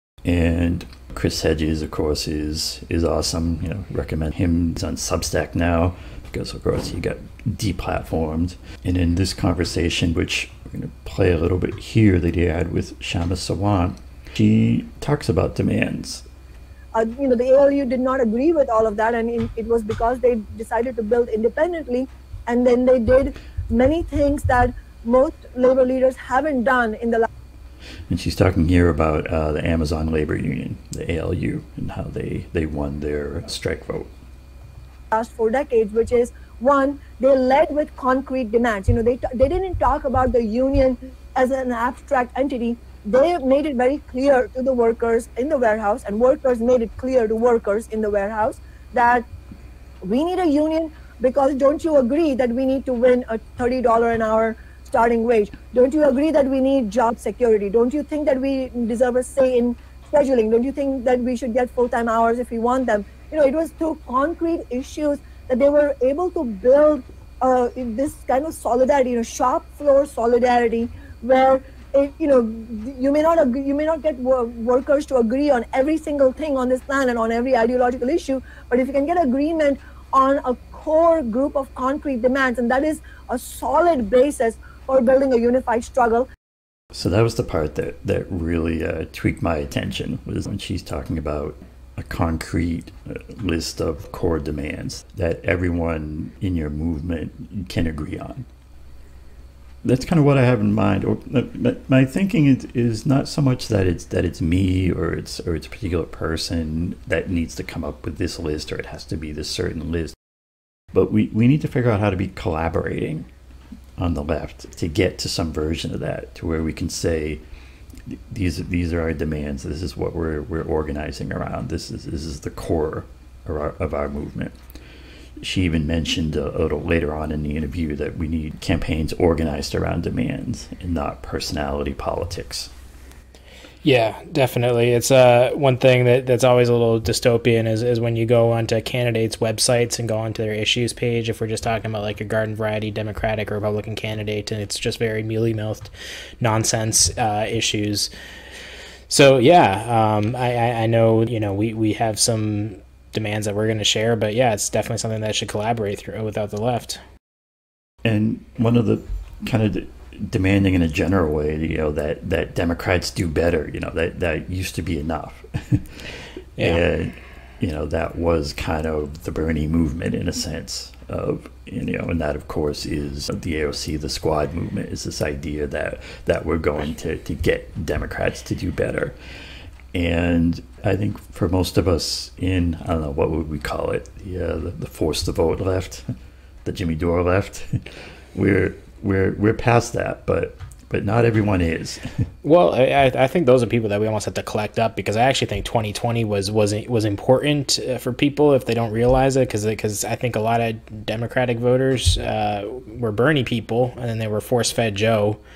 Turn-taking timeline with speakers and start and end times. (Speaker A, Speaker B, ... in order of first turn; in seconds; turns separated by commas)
Speaker A: 0.2-16.3, Speaker B: 16.9-27.3, Speaker A: 28.1-34.1, Speaker B: 35.1-49.2, Speaker B: 50.0-86.3, Speaker A: 86.9-98.5, Speaker A: 99.8-110.2, Speaker A: 110.9-113.3, Speaker A: 114.0-117.4, Speaker A: 118.1-124.5, Speaker A: 125.4-132.7, Speaker C: 133.8-148.1, Speaker C: 149.1-157.0, Speaker A: 158.0-165.9, Speaker A: 166.6-179.2, Speaker A: 179.9-186.1, Speaker A: 186.7-187.7, Speaker A: 188.3-192.1, Speaker C: 192.4-205.4